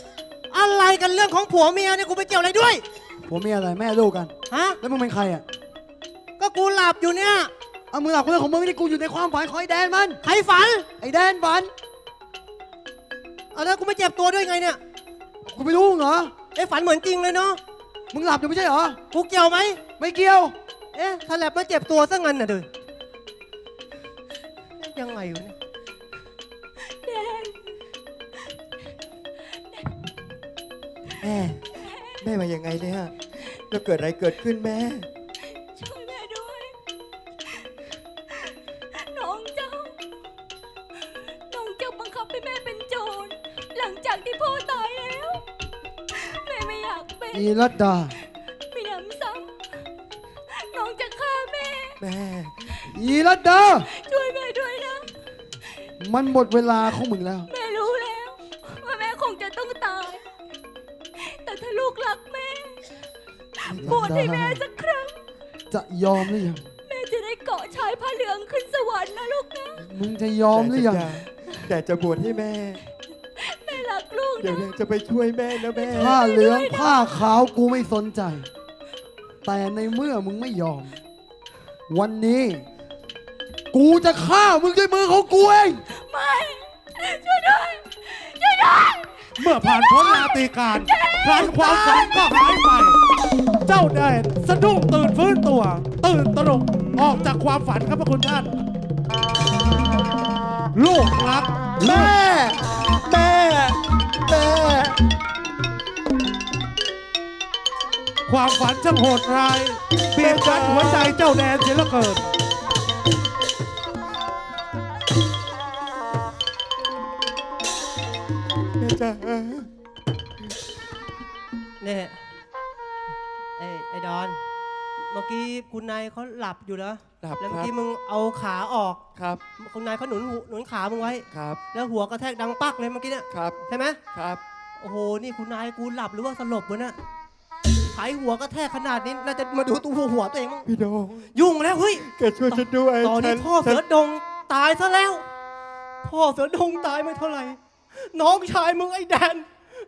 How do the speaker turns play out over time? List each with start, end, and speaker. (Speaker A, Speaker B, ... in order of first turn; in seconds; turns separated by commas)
Speaker A: 0.5-2.8, Speaker B: 3.3-5.4, Speaker A: 4.5-4.8, Speaker A: 6.4-7.5, Speaker B: 7.9-10.2, Speaker A: 10.2-10.8, Speaker B: 11.0-11.7, Speaker A: 13.5-14.8, Speaker B: 15.4-16.3, Speaker A: 16.5-17.6, Speaker B: 18.1-19.0, Speaker A: 19.1-19.8, Speaker B: 20.0-20.5, Speaker A: 20.9-22.7, Speaker A: 24.8-25.5, Speaker C: 26.9-27.8, Speaker D: 31.2-31.6, Speaker C: 31.8-32.2, Speaker D: 32.2-35.1, Speaker C: 35.7-36.7, Speaker C: 39.0-40.0, Speaker C: 41.5-45.4, Speaker C: 46.1-47.6, Speaker B: 47.3-48.1, Speaker C: 48.7-49.8, Speaker C: 50.6-52.0, Speaker D: 52.0-52.5, Speaker B: 52.9-53.9, Speaker C: 53.7-55.1, Speaker B: 56.0-57.5, Speaker C: 57.5-60.2, Speaker C: 61.2-62.8, Speaker C: 63.6-65.2, Speaker B: 63.7-64.6, Speaker B: 65.7-66.6, Speaker C: 66.8-69.8, Speaker B: 69.8-71.2, Speaker D: 70.5-72.8, Speaker C: 73.4-74.7, Speaker D: 74.4-76.1, Speaker C: 75.5-77.2, Speaker B: 75.9-78.5, Speaker B: 79.4-81.0, Speaker B: 81.9-82.6, Speaker B: 83.7-85.8, Speaker C: 85.9-92.5, Speaker E: 89.4-93.0, Speaker E: 93.7-98.5, Speaker E: 100.7-102.2, Speaker B: 101.8-102.5, Speaker D: 103.0-105.0, Speaker E: 108.3-112.3, Speaker D: 110.1-111.2, Speaker D: 118.8-119.7, Speaker A: 121.8-122.2, Speaker A: 123.6-124.4, Speaker A: 125.0-129.0, Speaker D: 127.2-127.7, Speaker A: 129.6-134.0, Speaker D: 131.3-131.6, Speaker D: 133.3-133.6, Speaker D: 134.1-134.4, Speaker A: 134.8-136.9, Speaker A: 137.9-140.7, Speaker D: 140.7-141.3, Speaker A: 141.3-145.2, Speaker D: 142.0-143.8, Speaker A: 146.0-149.5